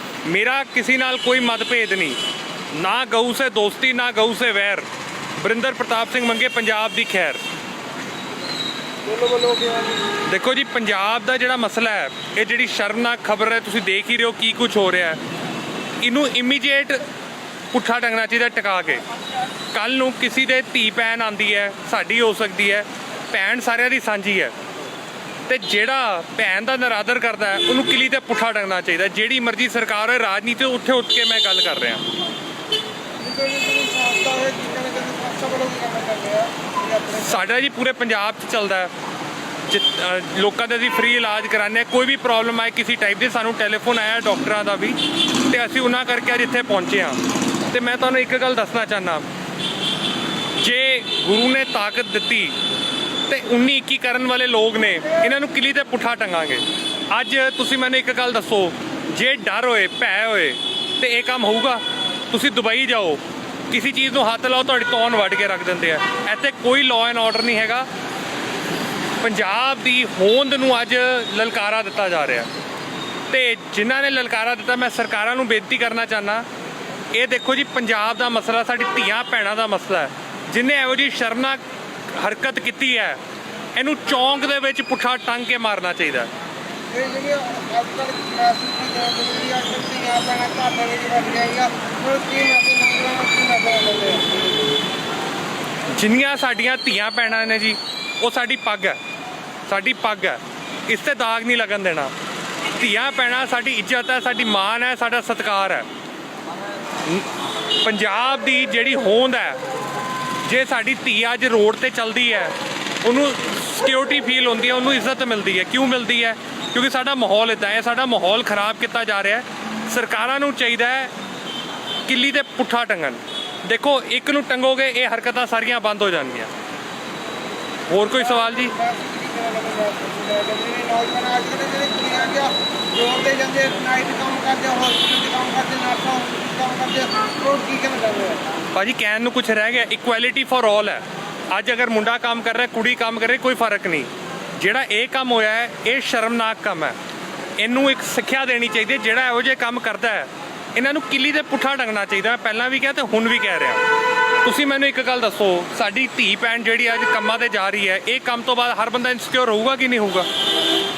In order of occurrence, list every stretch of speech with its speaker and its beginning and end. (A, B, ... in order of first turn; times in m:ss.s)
0:00.2-0:02.2 A
0:02.7-0:07.4 A
0:09.1-0:10.0 B
0:10.2-0:15.2 A
0:16.0-0:17.0 A
0:17.7-0:19.0 A
0:19.7-0:24.5 A
0:25.5-0:32.0 A
0:33.2-0:37.5 B
0:37.2-0:38.9 A
0:39.7-0:49.3 A
0:50.6-0:52.6 A
0:53.3-1:07.9 A
1:09.2-1:12.5 A
1:13.3-1:16.4 A
1:17.1-1:21.6 A
1:22.2-1:23.2 A
1:23.8-1:26.3 A
1:26.9-1:34.7 B
1:35.9-1:39.0 A
1:39.7-1:42.1 A
1:42.7-1:45.9 A
1:47.8-1:49.6 A
1:50.4-2:01.1 A
2:02.1-2:06.5 A
2:07.9-2:08.8 A
2:08.4-2:18.4 B
2:18.7-2:27.0 A
2:27.6-2:33.8 A
2:34.4-2:40.3 A